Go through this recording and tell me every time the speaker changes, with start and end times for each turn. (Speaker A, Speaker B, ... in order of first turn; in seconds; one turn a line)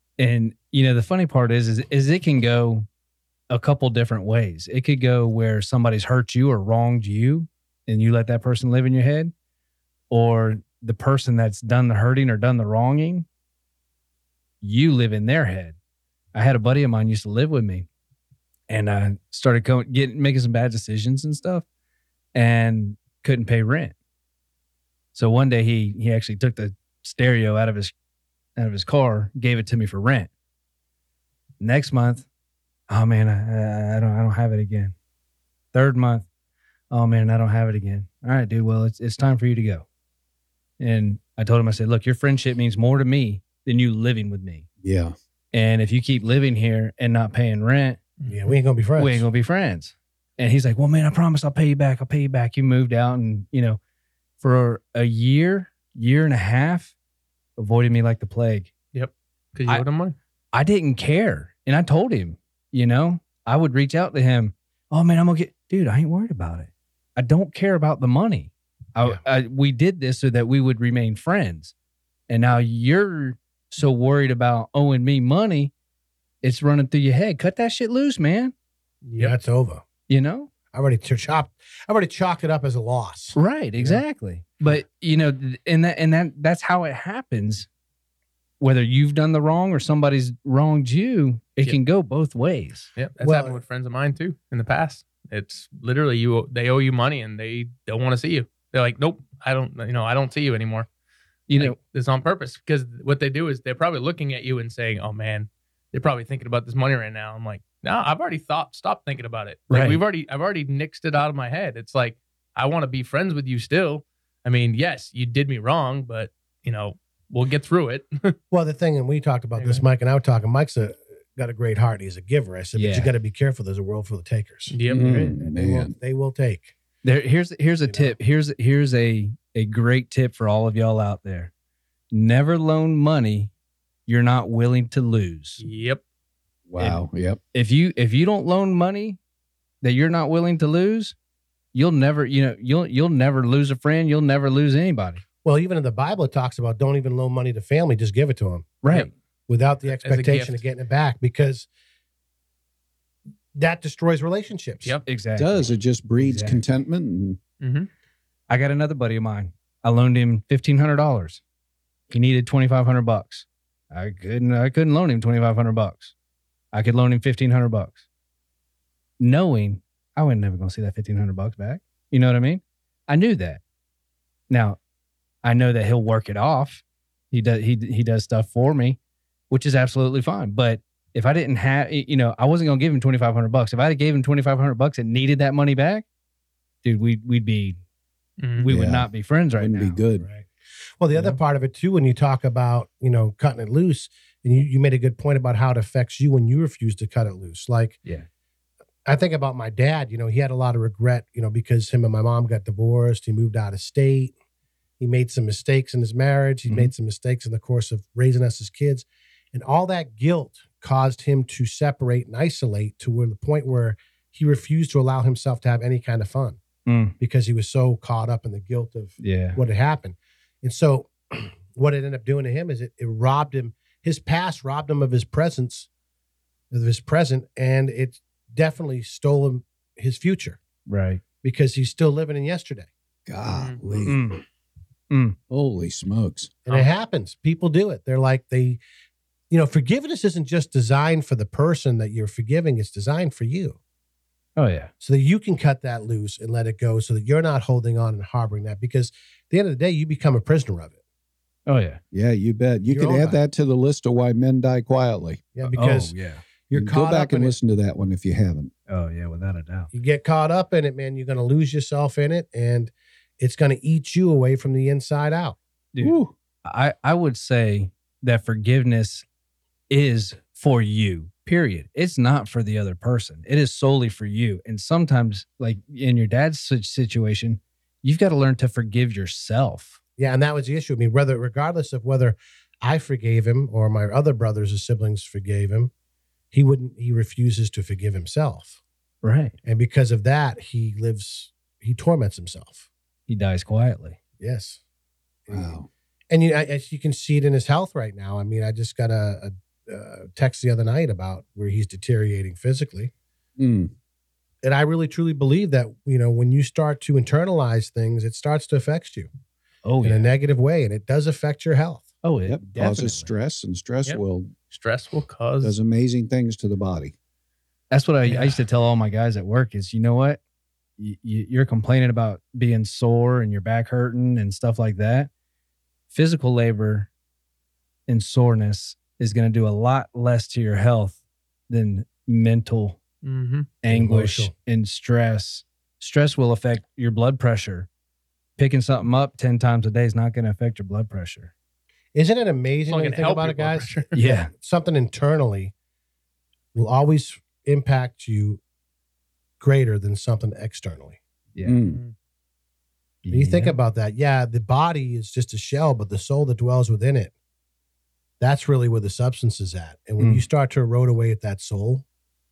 Speaker A: 0.2-2.9
Speaker A: 3.5-9.3
Speaker A: 10.1-13.3
Speaker A: 14.6-15.8
Speaker A: 16.3-17.9
Speaker A: 18.7-21.6
Speaker A: 22.3-23.9
Speaker A: 25.1-27.9
Speaker A: 28.6-30.3
Speaker A: 31.6-32.3
Speaker A: 32.9-34.9
Speaker A: 35.7-36.3
Speaker A: 36.9-39.9
Speaker A: 40.8-44.7
Speaker B: 44.8-45.1
Speaker A: 45.5-48.0
Speaker C: 48.2-48.5
Speaker D: 48.3-49.3
Speaker A: 49.0-53.8
Speaker A: 54.4-56.9
Speaker A: 57.6-58.7
Speaker C: 58.9-60.1
Speaker A: 60.5-71.7
Speaker A: 72.3-75.7
Speaker A: 76.4-78.5
Speaker C: 79.0-79.3
Speaker D: 79.2-79.8
Speaker A: 80.1-80.5
Speaker D: 80.7-84.0
Speaker A: 83.3-87.7
Speaker A: 88.6-92.9
Speaker C: 93.0-100.9
Speaker D: 93.2-93.6
Speaker A: 101.5-101.8
Speaker C: 101.6-118.4
Speaker A: 109.7-110.0
Speaker D: 118.5-126.7
Speaker C: 119.6-119.8
Speaker A: 122.8-123.1
Speaker C: 124.7-125.3
Speaker B: 124.9-125.9
Speaker A: 127.0-131.5
Speaker D: 127.9-128.2
Speaker A: 132.1-133.5
Speaker A: 134.1-135.6
Speaker C: 135.6-136.0
Speaker B: 136.7-137.4
Speaker A: 136.8-139.2
Speaker A: 139.8-141.2
Speaker A: 141.7-145.2
Speaker D: 145.4-148.7
Speaker A: 148.8-149.1
Speaker D: 149.5-151.7
Speaker C: 149.9-150.6
Speaker D: 153.6-155.0
Speaker A: 155.1-156.6
Speaker B: 155.4-157.4
Speaker C: 157.6-157.9
Speaker A: 158.5-161.4
Speaker A: 162.1-166.1
Speaker A: 166.7-168.0
Speaker A: 169.2-173.6
Speaker A: 174.5-174.8
Speaker A: 175.4-179.0
Speaker A: 179.5-186.1
Speaker A: 186.8-187.8
Speaker C: 188.4-188.7
Speaker A: 188.6-190.0
Speaker B: 188.7-190.3
Speaker D: 190.2-190.5
Speaker D: 191.0-198.0
Speaker D: 199.1-204.3
Speaker D: 205.0-216.6
Speaker A: 216.9-217.2
Speaker D: 217.2-225.9
Speaker A: 219.2-219.6
Speaker D: 226.7-230.6
Speaker A: 230.9-231.2
Speaker D: 231.4-232.9
Speaker B: 233.3-234.2
Speaker C: 233.5-233.8
Speaker A: 234.1-234.4
Speaker A: 235.1-235.4
Speaker B: 235.5-236.5
Speaker D: 236.7-238.8
Speaker D: 239.5-243.8
Speaker A: 244.6-244.9
Speaker D: 245.0-251.0
Speaker A: 251.7-252.0
Speaker B: 252.1-255.4
Speaker D: 252.9-253.4
Speaker D: 255.6-256.1
Speaker A: 255.7-256.4
Speaker D: 256.7-257.6
Speaker B: 256.7-258.7
Speaker A: 258.9-259.9
Speaker D: 259.9-265.6
Speaker A: 265.9-269.2
Speaker B: 266.0-266.3
Speaker A: 269.9-280.0
Speaker D: 280.2-285.9
Speaker D: 286.5-288.8
Speaker A: 289.2-289.6
Speaker D: 289.6-292.8
Speaker A: 293.3-294.2
Speaker D: 294.4-294.8
Speaker D: 295.5-295.8
Speaker B: 295.5-295.9
Speaker D: 296.3-303.1
Speaker B: 303.6-303.9
Speaker D: 304.6-309.3
Speaker A: 309.9-310.3
Speaker D: 310.0-312.1
Speaker A: 312.2-313.3
Speaker B: 312.5-314.5
Speaker C: 314.1-315.8
Speaker B: 315.6-317.1
Speaker A: 317.9-320.4
Speaker A: 321.0-325.3
Speaker A: 326.1-327.1
Speaker A: 328.1-331.2
Speaker A: 331.7-333.0
Speaker C: 333.2-333.7
Speaker A: 333.8-337.9
Speaker D: 333.9-334.5
Speaker A: 338.6-341.5
Speaker D: 342.1-345.7
Speaker C: 342.9-344.2
Speaker A: 344.1-344.5
Speaker D: 346.8-348.6
Speaker D: 349.6-351.2
Speaker B: 351.6-352.0
Speaker C: 351.9-352.1
Speaker A: 353.2-353.8
Speaker D: 353.3-357.3
Speaker D: 358.4-362.0
Speaker A: 360.2-360.4